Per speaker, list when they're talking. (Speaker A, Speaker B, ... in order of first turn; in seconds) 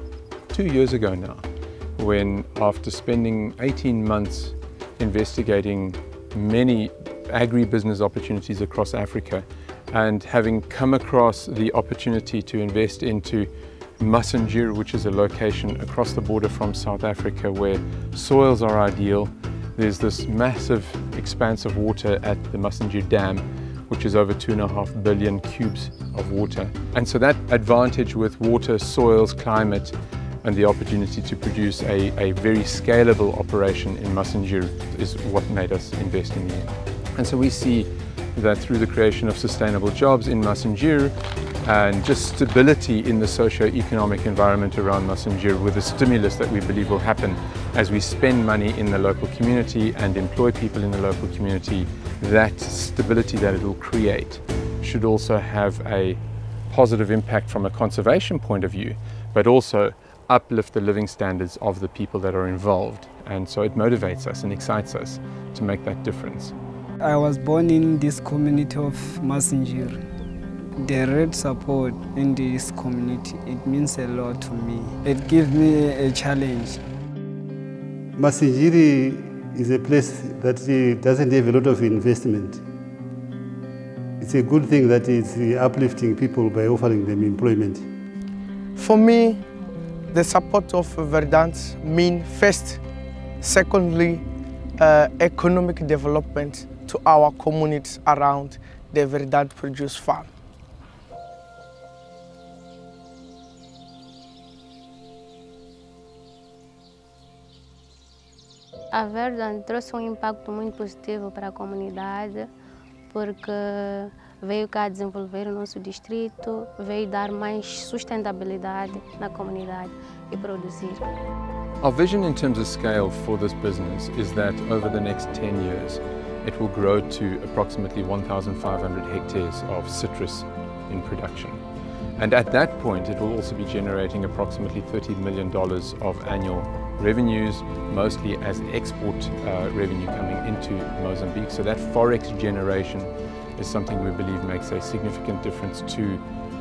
Speaker A: 0.5-1.4, 2.0-66.5, 121.8-131.6, 132.2-146.2
Speaker B: 67.0-70.0, 70.8-76.8
Speaker C: 78.2-82.6, 84.2-87.9
Speaker D: 88.8-89.4, 90.1-92.8, 93.4-94.2, 94.8-100.3
Speaker E: 108.9-112.5, 113.1-121.1